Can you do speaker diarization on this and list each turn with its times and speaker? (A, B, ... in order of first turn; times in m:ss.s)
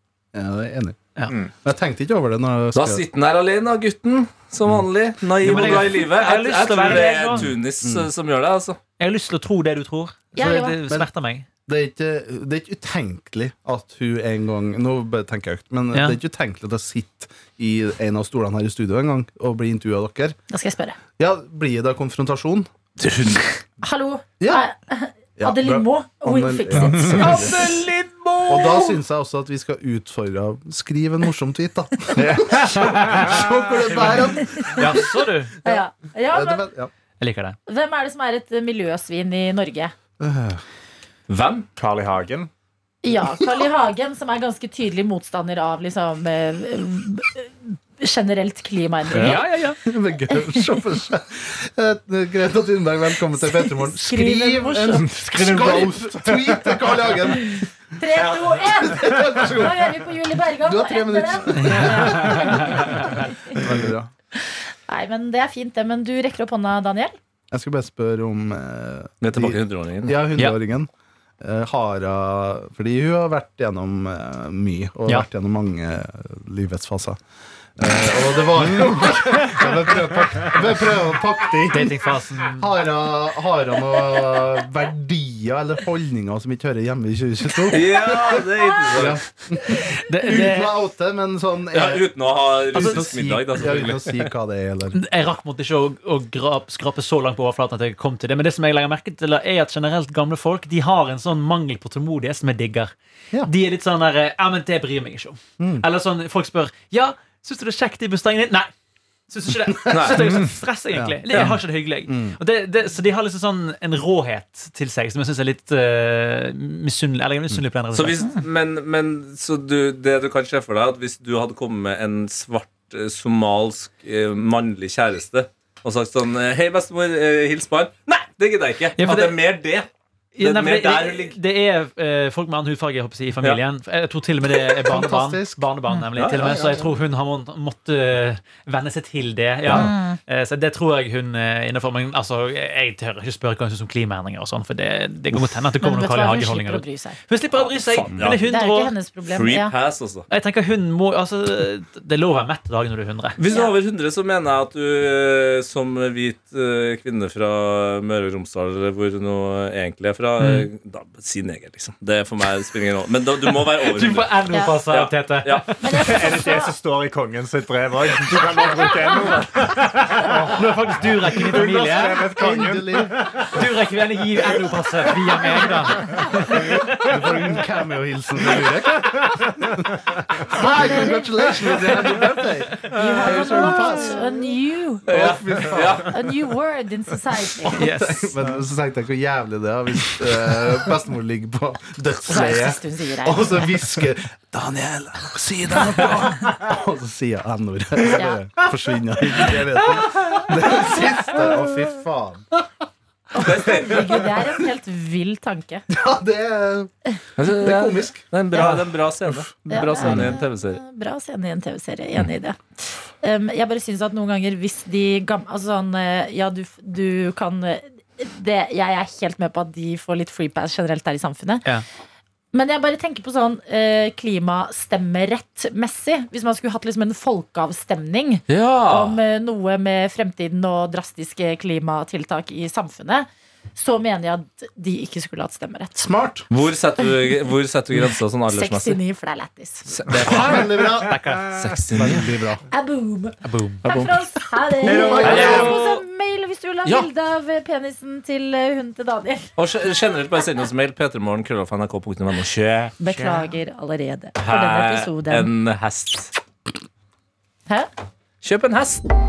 0:00.3-0:01.0 A
0:01.5-0:03.0 A
0:02.8-0:08.8 B
0:05.4-0:07.5 C
0:07.4-0:08.1 A
0:09.0-0:11.5 C
0:10.3-0:10.8 D
0:11.7-0:20.4 A
0:20.5-0:21.0 D
0:21.2-0:22.7 A
0:23.0-0:23.5 B
0:23.8-0:27.8 D
0:25.4-0:27.7 A
0:26.8-0:27.3 E
0:27.2-0:28.9 B
0:28.5-0:36.9 A
0:32.2-0:33.2 C
0:32.2-0:33.4 E
0:33.8-0:35.6 C
0:34.3-0:34.9 D
0:35.6-0:36.7 D
0:37.2-0:37.6 C
0:37.7-0:39.9 D
0:40.2-0:40.6 A
0:41.3-0:41.7 B
0:41.8-0:42.5 E
0:43.0-0:49.5 D
0:49.1-0:49.8 C
0:49.8-1:04.1 A
0:50.3-0:50.7 D
0:53.4-0:55.0 D
0:55.0-0:57.1 E
0:57.4-1:03.4 D
1:01.6-1:02.9 C
1:04.9-1:07.2 D
1:07.5-1:10.9 A
1:09.2-1:10.2 B
1:11.4-1:17.2 A
1:17.8-1:22.0 A
1:18.5-1:21.9 E
1:21.7-1:22.8 C
1:22.6-1:35.0 A
1:27.7-1:29.2 B
1:29.8-1:30.7 C
1:31.7-1:34.3 B
1:32.7-1:33.1 C
1:34.9-1:48.7 C
1:45.6-1:45.8 A
1:49.3-1:58.3 C
1:49.7-1:52.4 A
1:49.9-1:50.4 B
1:57.9-2:09.9 B
2:09.0-2:09.4 C
2:10.4-2:29.0 C
2:10.4-2:11.4 B
2:14.9-2:15.7 A
2:16.2-2:16.7 B
2:19.7-2:20.2 D
2:25.8-2:27.2 D
2:27.6-2:28.6 B
2:28.4-2:29.7 D
2:29.2-2:30.3 B
2:30.3-2:33.4 C
2:33.4-2:44.3 B
2:33.5-2:33.7 D
2:40.4-2:40.7 C
2:43.9-2:46.0 C
2:44.5-2:44.8 D
2:44.9-2:45.6 B
2:45.8-2:46.7 D
2:46.0-2:50.6 E
2:48.6-2:49.4 D
2:50.2-2:52.4 C
2:51.2-2:53.7 E
2:52.2-2:53.4 A
2:53.5-2:57.0 C
2:56.0-2:57.6 E
2:57.0-3:04.4 A
2:58.6-2:59.8 E
3:00.6-3:01.5 D
3:02.9-3:05.0 D
3:05.1-3:06.1 A
3:05.1-3:06.2 B
3:06.0-3:07.8 D
3:07.7-3:22.6 A
3:07.7-3:08.3 C
3:12.3-3:13.6 D
3:19.9-3:20.5 C
3:23.3-3:25.9 D
3:23.4-3:24.2 B
3:23.5-3:24.3 A
3:25.9-3:26.9 A
3:27.4-3:30.8 B
3:27.4-3:29.4 A
3:29.7-3:41.6 D
3:30.0-3:30.3 A
3:42.5-3:56.1 D
3:48.5-3:49.2 B
3:56.0-3:56.5 A
3:56.5-3:59.0 B
3:58.5-3:59.9 D
3:59.9-4:00.9 B
4:00.1-4:01.2 A
4:00.1-4:00.6 E
4:01.0-4:02.2 C
4:01.6-4:02.3 B
4:01.9-4:02.6 A
4:02.7-4:09.5 D
4:03.4-4:03.8 C
4:03.8-4:04.2 B
4:04.8-4:05.8 E
4:04.9-4:06.0 B
4:05.0-4:05.8 A
4:05.3-4:05.6 C
4:09.6-4:13.0 B
4:13.0-4:15.5 D
4:13.1-4:13.6 C
4:14.4-4:16.3 B
4:18.4-4:19.0 B